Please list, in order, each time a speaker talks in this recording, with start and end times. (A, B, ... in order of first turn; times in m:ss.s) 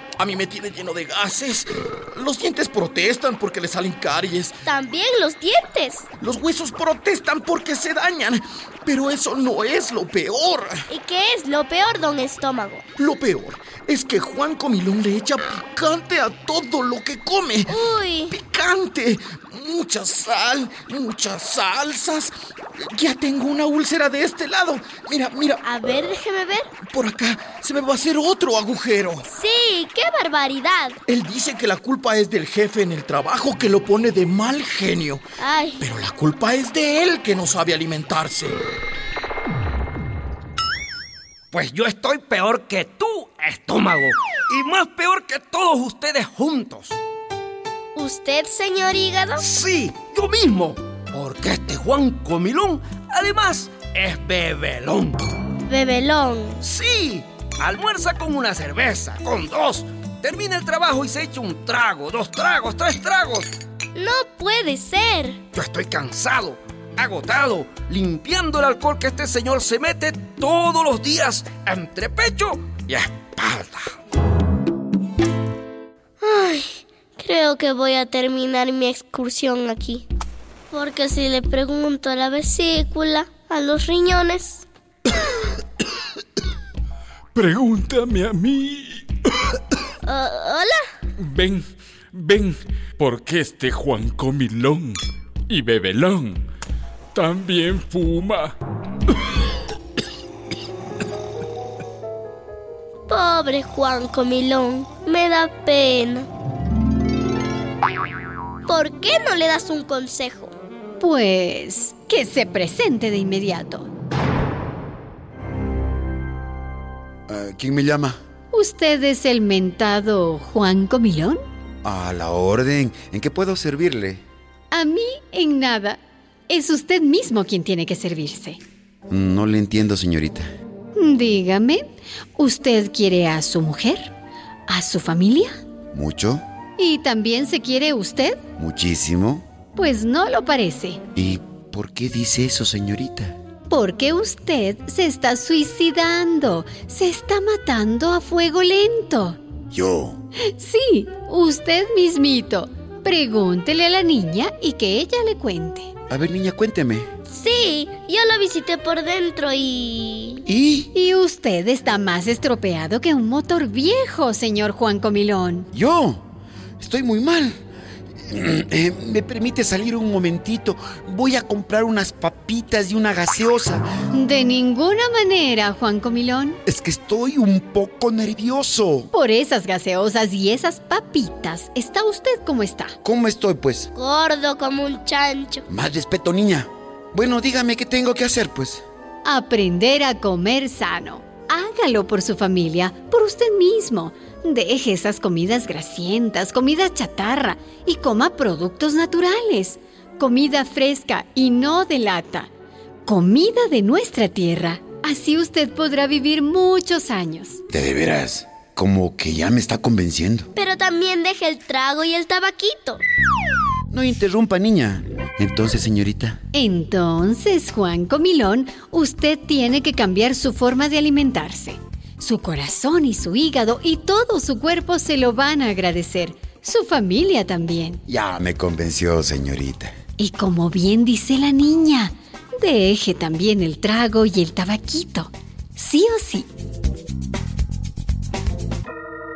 0:00.2-0:04.5 A
0:04.6-0:06.1 B
0:06.2-0:10.8 A
0:10.9-0:12.8 B
0:13.0-0:17.7 A
0:17.7-0:18.3 B
0:18.3-0:25.6 A
0:25.6-0:26.7 B
0:26.9-0:29.2 A
0:29.3-0:31.0 B
0:31.1-0:35.2 A
0:35.4-0:35.8 B
0:35.8-0:38.6 A
0:41.5-0:47.0 C
0:47.9-0:49.5 B
0:49.4-0:55.2 C
0:55.7-0:56.6 B
0:56.6-1:03.5 C
1:03.9-1:05.4 B
1:05.5-1:13.9 C
1:16.2-1:20.0 B
1:20.7-1:24.6 B
1:27.3-1:29.0 D
1:30.0-1:30.8 B
1:31.2-1:36.4 D
1:37.1-1:38.5 D
1:43.1-1:46.3 B
1:48.6-1:50.5 B
1:51.0-1:53.9 E
1:57.3-1:58.2 F
1:58.5-2:01.4 E
2:01.8-2:04.2 F
2:04.7-2:08.6 E
2:09.1-2:10.5 F
2:10.9-2:14.1 E
2:14.7-2:15.6 E
2:15.9-2:16.4 F
2:16.8-2:18.4 E
2:18.6-2:19.4 F
2:19.8-2:21.0 E
2:21.1-2:23.3 F
2:23.7-2:29.4 E
2:29.7-2:30.2 F
2:30.5-2:35.9 E
2:36.1-2:37.1 F
2:37.3-2:40.4 B
2:40.5-2:40.9 F
2:40.9-2:45.7 E
2:45.7-2:46.2 F
2:46.8-2:47.6 F
2:48.3-2:53.8 F
2:54.1-2:56.6 E
2:56.6-2:59.1 F
2:59.1-3:03.0 E
3:03.0-3:03.9 F
3:04.0-3:05.6 B
3:05.7-3:08.8 F
3:09.2-3:22.5 E
3:23.0-3:27.6 E
3:27.7-3:30.5 F
3:30.6-3:33.0 B
3:33.9-3:36.4 F
3:36.5-3:48.0 E
3:48.1-3:49.9 F
3:50.2-3:56.5 E